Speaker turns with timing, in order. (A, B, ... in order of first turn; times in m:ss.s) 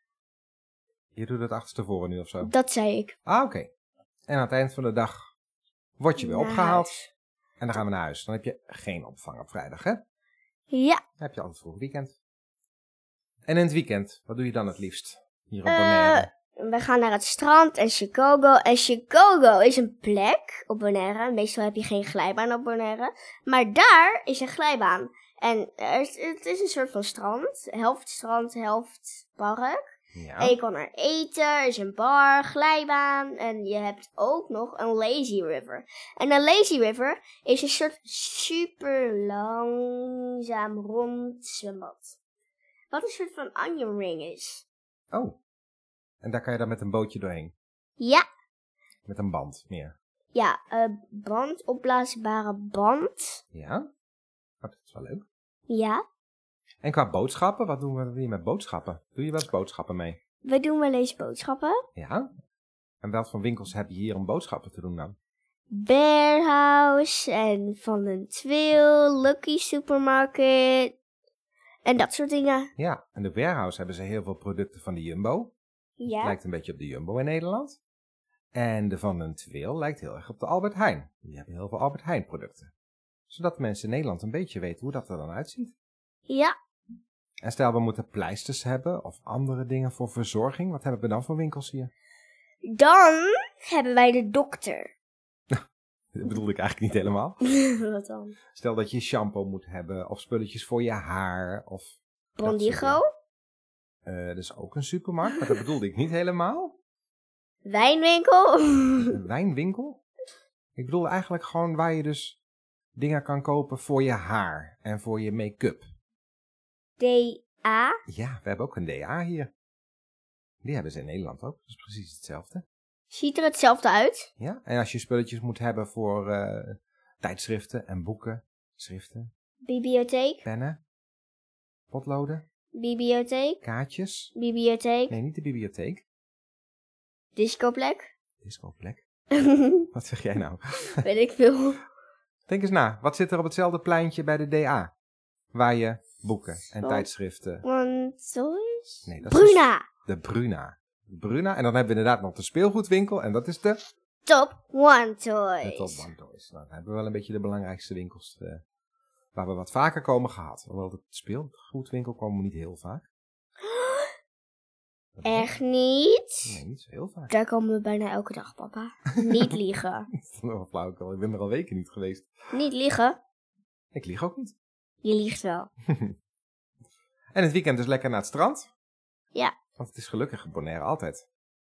0:01.2-0:02.5 A
0:02.4-0:03.2 B
0:03.3-0:03.7 A
0:04.3-0:05.3 A
0:06.0-0:07.0 A
0:06.2-0:07.1 B
0:07.6-0:10.0 A
0:10.7-0:11.0 B
0:11.2-0:12.2 A
0:13.5-0:16.3 A
0:15.7-0:29.8 B
0:30.2-0:30.6 A
0:30.4-0:42.2 B
0:42.9-0:44.6 B
0:45.1-0:45.4 A
0:46.2-0:47.5 A
0:48.0-0:48.2 B
0:49.1-0:50.0 A
0:50.3-0:53.4 B
0:53.5-0:53.9 A
0:54.6-0:55.2 A
0:55.7-0:56.0 B
0:56.8-1:00.2 A
1:00.4-1:01.8 B
1:02.0-1:02.3 A
1:03.0-1:05.2 A
1:05.7-1:11.0 B
1:11.8-1:12.7 B
1:12.8-1:15.5 A
1:16.0-1:16.4 B
1:16.2-1:17.8 A
1:18.6-1:22.7 A
1:23.3-1:25.7 A
1:26.3-1:26.5 B
1:27.4-1:31.9 A
1:32.6-1:34.9 B
1:36.1-1:37.4 A
1:37.5-1:38.4 B
1:38.6-1:43.0 A
1:42.4-1:43.0 B
1:44.0-1:46.8 A
1:45.3-1:45.6 B
1:47.6-1:49.2 B
1:49.0-1:50.0 A
1:50.8-1:52.4 A
1:53.0-1:55.8 A
1:57.0-1:58.0 B
1:58.1-1:59.5 A
2:00.6-2:02.6 A
2:03.1-2:04.3 B
2:04.4-2:09.3 A
2:09.6-2:10.4 B
2:10.4-2:10.8 A
2:11.9-2:12.4 A
2:12.7-2:13.6 B
2:13.6-2:14.3 A
2:14.3-2:15.2 B
2:15.1-2:16.0 A
2:17.4-2:18.1 B
2:18.4-2:19.0 A
2:19.4-2:19.9 B
2:19.9-2:21.0 A
2:21.0-2:21.8 B
2:22.5-2:24.9 A
2:25.5-2:27.6 A
2:26.8-2:27.1 B
2:27.6-2:29.9 B
2:29.1-2:33.8 A
2:34.3-2:36.1 B
2:35.6-2:38.6 A
2:39.4-2:43.1 A
2:43.6-2:44.1 B
2:45.2-2:45.5 A
2:45.2-2:46.6 B
2:46.5-2:47.3 A
2:47.3-2:50.1 B
2:50.1-2:52.3 A
2:52.5-2:53.2 B
2:53.9-2:54.6 A
2:55.0-2:55.7 B
2:55.9-2:56.2 A
2:57.3-2:58.7 A
2:59.8-3:01.2 A